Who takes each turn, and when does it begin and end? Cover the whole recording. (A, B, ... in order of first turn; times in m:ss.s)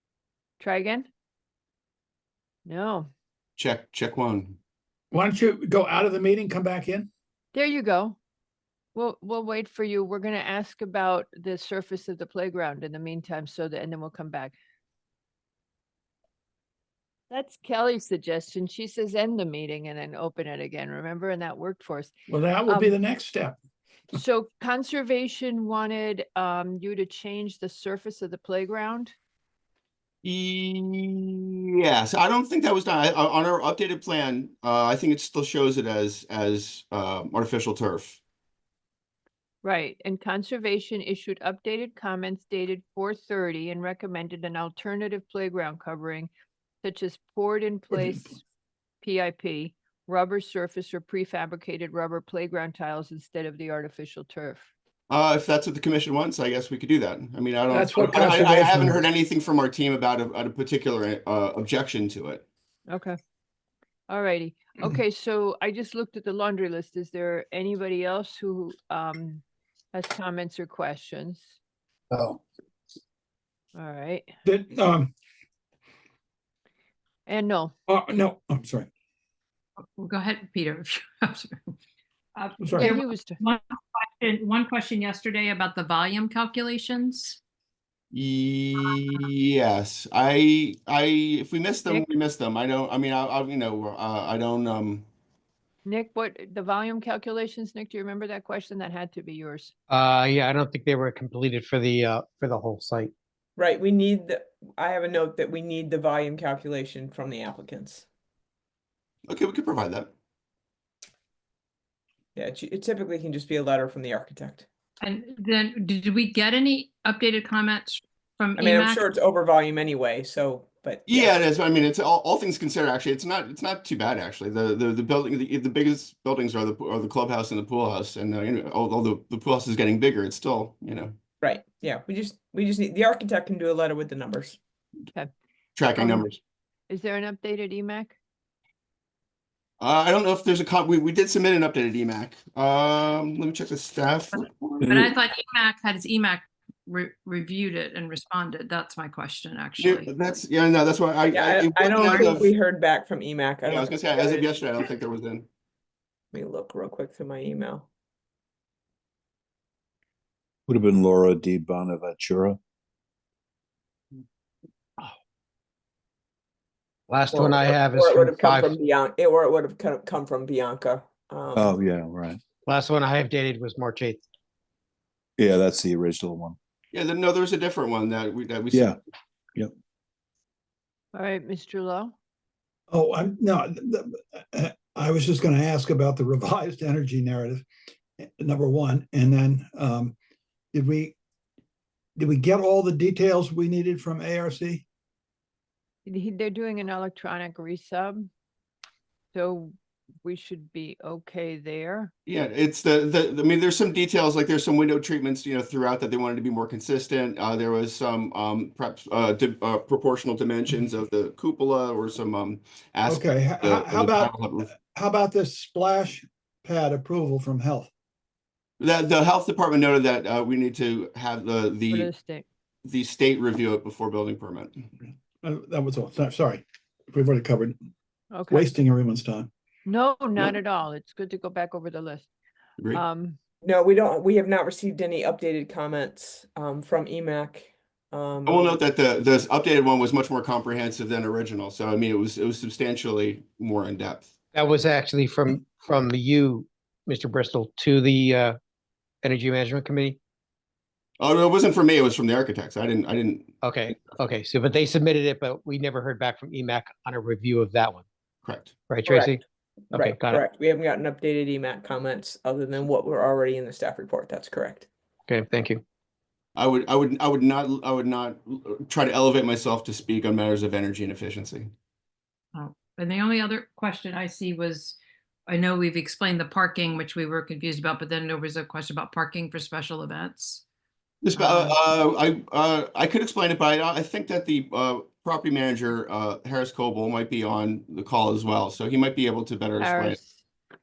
0:00.6-0:01.1 A
0:02.7-0:03.1 A
0:03.6-0:04.6 B
0:05.1-0:07.1 C
0:07.5-0:08.2 A
0:09.0-0:14.6 A
0:17.3-0:22.1 A
0:22.3-0:23.6 C
0:22.7-0:23.0 A
0:24.1-0:29.1 A
0:30.2-0:38.2 B
0:39.6-0:46.3 A
0:46.8-0:48.4 A
0:49.0-0:54.7 A
0:55.1-1:02.4 B
0:57.7-0:59.0 C
1:02.9-1:03.2 A
1:04.1-1:11.6 A
1:12.1-1:12.4 D
1:13.8-1:14.3 A
1:14.4-1:15.1 C
1:17.3-1:17.7 A
1:17.9-1:18.9 C
1:20.0-1:21.6 E
1:22.4-1:27.4 E
1:22.6-1:22.9 C
1:22.8-1:23.4 A
1:28.1-1:35.1 B
1:35.8-1:39.7 A
1:39.9-1:43.1 D
1:43.6-1:48.1 F
1:49.3-1:50.1 B
1:52.3-1:54.7 F
1:55.0-1:59.1 E
1:58.6-2:01.3 F
2:01.1-2:11.2 B
2:11.4-2:14.6 F
2:15.8-2:16.4 B
2:16.0-2:16.3 A
2:16.9-2:18.2 A
2:19.8-2:24.8 B
2:24.4-2:30.4 E
2:24.8-2:25.1 G
2:29.8-2:32.5 B
2:31.3-2:34.4 F
2:32.0-2:32.4 E
2:33.6-2:35.5 B
2:36.3-2:37.9 F
2:40.7-2:42.6 G
2:47.1-2:48.8 D
2:47.3-2:51.6 F
2:51.5-2:52.4 G
2:52.6-2:54.2 D
2:55.4-2:56.6 G
2:56.9-2:58.9 B
2:58.7-2:59.0 G
3:01.1-3:02.2 A
3:02.9-3:07.6 C
3:08.2-3:10.2 C
3:10.7-3:11.2 C
3:12.2-3:14.8 C
3:16.1-3:18.3 A
3:19.3-3:22.1 A
3:22.2-3:34.7 B
3:33.1-3:37.9 C
3:38.8-3:42.1 B
3:41.9-3:42.4 A
3:42.8-3:44.8 B
3:45.4-3:47.8 C
3:48.3-3:48.7 A
3:48.5-3:49.5 C
3:49.8-3:52.3 A
3:52.9-3:53.4 A
3:53.6-3:58.8 F
3:58.5-4:04.3 B
4:04.5-4:08.6 D
4:09.2-4:10.2 D
4:11.2-4:13.5 B
4:13.6-4:18.0 D
4:18.4-4:18.8 B
4:18.9-4:20.4 D
4:19.9-4:24.9 F
4:25.3-4:25.8 D
4:26.6-4:31.7 B
4:32.5-4:40.6 E
4:41.2-4:50.2 B
4:41.4-4:41.8 E
4:49.8-4:50.4 A